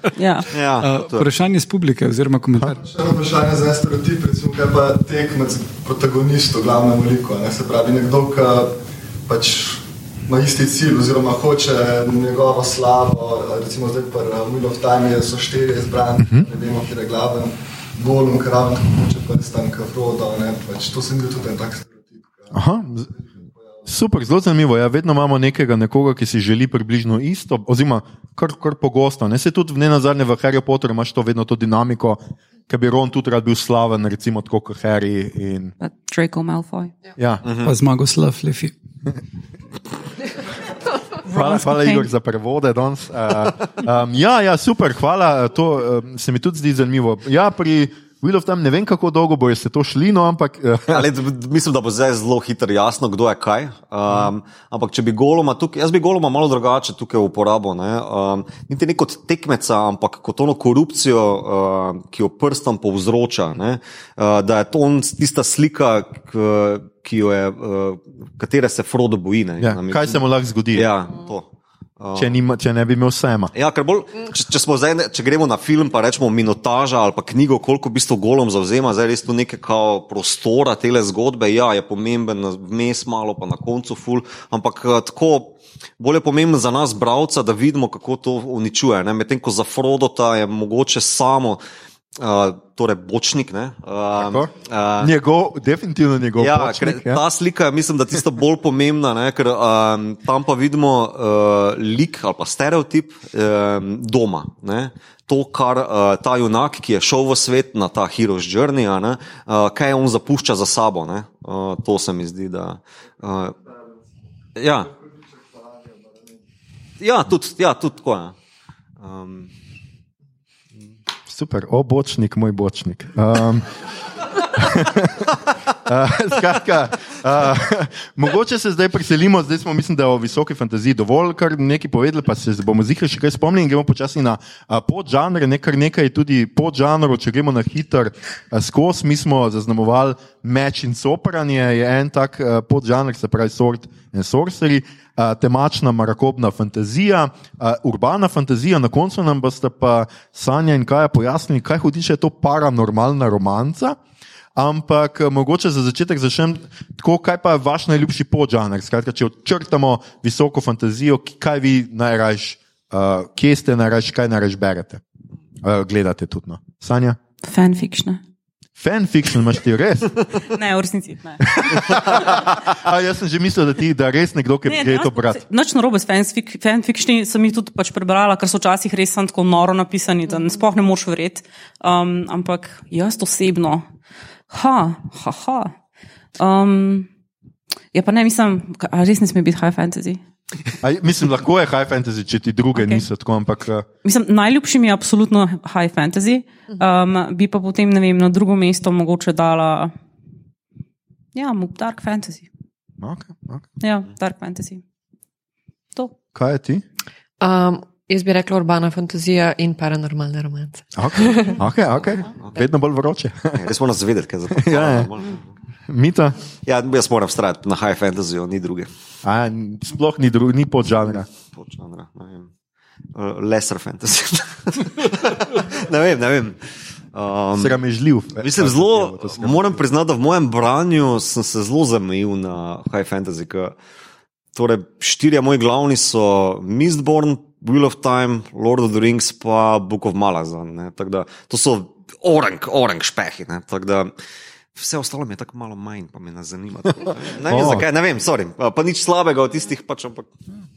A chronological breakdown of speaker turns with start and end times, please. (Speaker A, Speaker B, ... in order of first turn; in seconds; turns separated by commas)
Speaker A: 0.1-0.5, Speaker B: 0.5-1.3, Speaker C: 0.8-2.8, Speaker D: 2.8-22.5, Speaker E: 16.2-16.4, Speaker E: 22.5-23.1, Speaker E: 23.9-35.7, Speaker A: 35.8-36.9, Speaker E: 37.2-37.4, Speaker B: 37.4-37.7, Speaker C: 37.6-38.7, Speaker E: 41.2-51.0, Speaker A: 41.3-42.1, Speaker B: 50.9-72.3, Speaker E: 69.6-70.9, Speaker E: 72.1-73.5, Speaker B: 73.5-91.6, Speaker B: 92.2-95.1, Speaker E: 94.2-97.2, Speaker B: 96.4-113.6, Speaker B: 114.5-114.9, Speaker D: 115.7-116.0, Speaker B: 117.0-118.3, Speaker B: 119.0-119.5, Speaker E: 121.3-123.7, Speaker E: 124.4-154.0, Speaker E: 154.6-165.0, Speaker E: 165.6-167.2, Speaker A: 167.4-168.2, Speaker E: 168.8-170.2, Speaker A: 170.4-171.7, Speaker E: 171.5-175.4, Speaker A: 174.7-183.8, Speaker A: 184.5-185.7, Speaker A: 186.4-187.1, Speaker A: 187.9-190.2, Speaker E: 190.8-193.8, Speaker A: 192.7-193.0, Speaker A: 194.0-199.9, Speaker A: 201.3-202.5, Speaker E: 203.0-203.7, Speaker A: 203.8-204.8, Speaker E: 206.3-206.8, Speaker F: 207.4-211.6, Speaker E: 210.9-213.6, Speaker B: 212.4-212.7, Speaker B: 213.5-215.5, Speaker E: 214.5-215.1, Speaker E: 215.9-216.3, Speaker B: 216.6-218.9, Speaker E: 219.2-221.3, Speaker B: 221.5-222.5, Speaker B: 223.1-227.8, Speaker E: 227.5-229.8, Speaker B: 228.4-233.8, Speaker B: 234.5-244.1, Speaker B: 244.7-250.3, Speaker E: 247.4-247.8